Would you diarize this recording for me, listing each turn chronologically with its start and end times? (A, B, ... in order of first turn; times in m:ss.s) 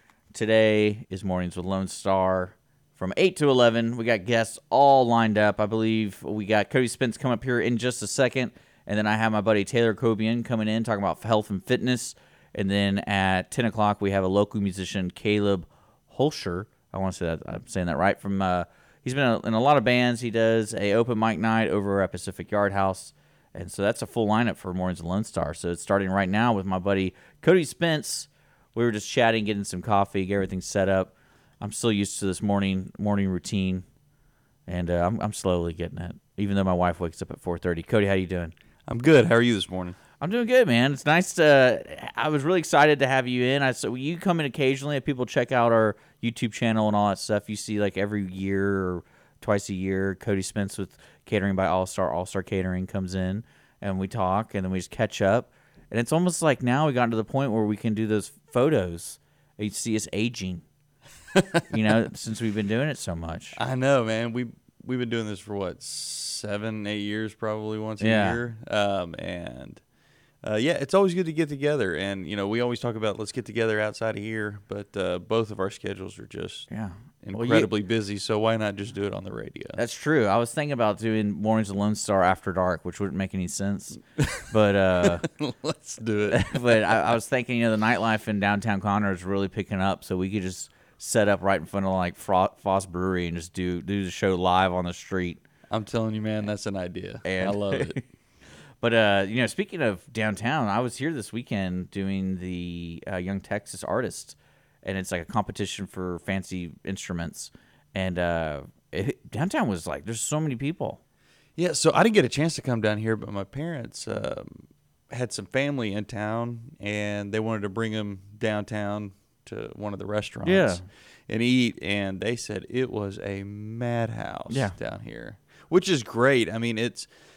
0:00.3-0:33.8 A
0:34.7-0:38.5 A
0:38.9-0:40.0 B
0:40.2-1:00.6 A
1:01.3-1:01.6 B
1:01.7-1:03.6 A
1:03.6-1:09.8 B
1:08.0-1:08.4 A
1:10.4-1:16.7 B
1:16.7-1:17.7 A
1:17.2-1:19.8 B
1:19.8-1:25.3 A
1:24.2-1:24.5 B
1:25.0-1:27.0 B
1:26.3-1:35.4 A
1:35.7-1:38.0 B
1:37.2-1:38.0 A
1:38.8-1:51.0 A
1:51.6-2:07.1 B
2:00.4-2:00.8 A
2:04.5-2:04.7 A